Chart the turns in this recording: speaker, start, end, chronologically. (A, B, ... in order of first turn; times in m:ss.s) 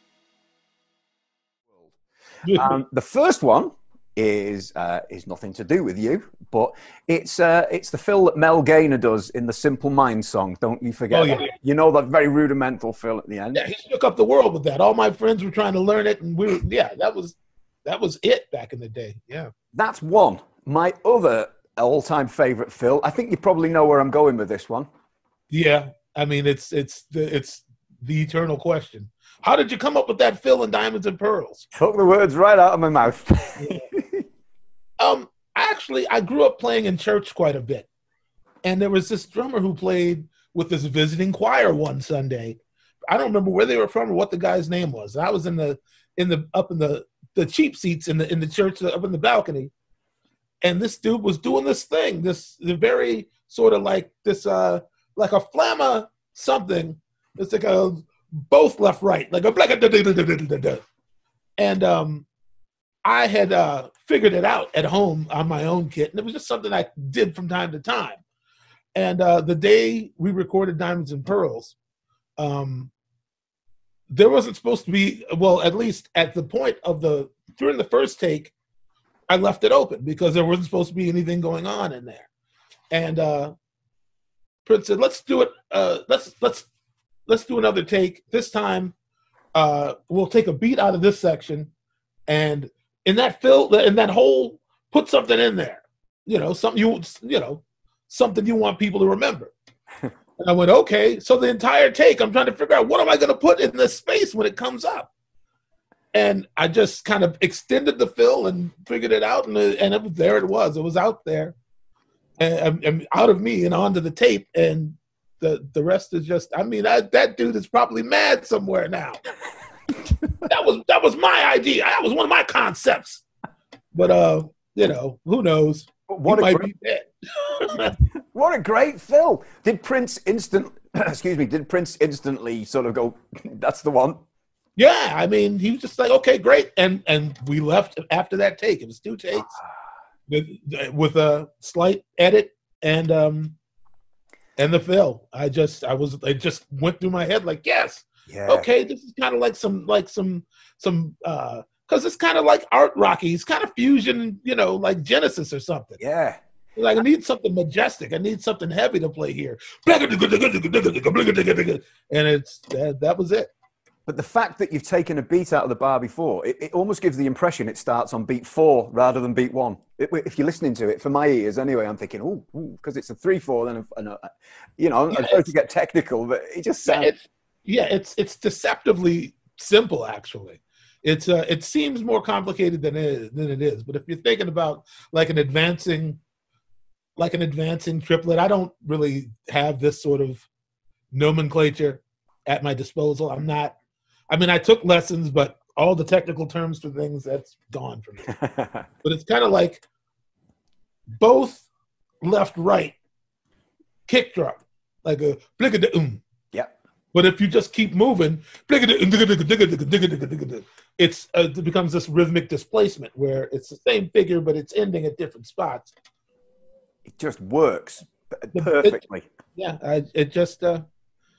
0:02.4-0:02.8 A
0:02.5-0:13.6 B
0:11.1-0:11.5 A
0:13.5-0:19.5 A
0:19.7-0:24.9 B
0:25.5-0:31.7 A
0:31.7-0:34.2 B
0:33.6-0:33.8 A
0:35.0-0:37.9 A
0:38.6-0:49.7 A
0:50.6-1:00.8 A
1:01.6-1:02.3 A
1:03.0-1:08.2 A
1:09.0-1:11.8 A
1:12.4-1:12.9 A
1:14.1-1:18.5 A
1:19.3-1:22.3 A
1:22.9-1:23.5 A
1:24.6-1:26.7 A
1:27.3-1:28.9 A
1:29.5-1:31.7 A
1:32.3-1:39.5 A
1:40.4-1:45.1 A
1:46.1-1:51.6 A
1:52.4-1:59.2 A
2:00.4-2:03.2 A
2:03.9-2:08.0 A
2:06.1-2:06.7 B
2:08.3-2:14.2 B
2:14.8-2:19.5 A
2:19.3-2:19.7 B
2:20.3-2:23.6 A
2:24.6-2:36.0 A
2:28.3-2:28.7 B
2:36.0-2:36.4 B
2:36.8-2:43.5 A
2:44.1-2:57.1 B
2:55.1-2:55.5 A
2:56.8-3:06.2 A
3:07.2-3:10.4 A
3:11.1-3:13.7 A
3:14.3-3:18.4 A
3:18.4-3:18.7 B
3:19.0-3:19.8 A
3:21.2-3:21.6 A
3:22.2-3:23.0 A
3:24.1-3:26.2 A
3:27.1-3:35.9 A
3:37.1-3:39.3 B
3:38.5-3:39.0 A
3:39.6-3:40.8 A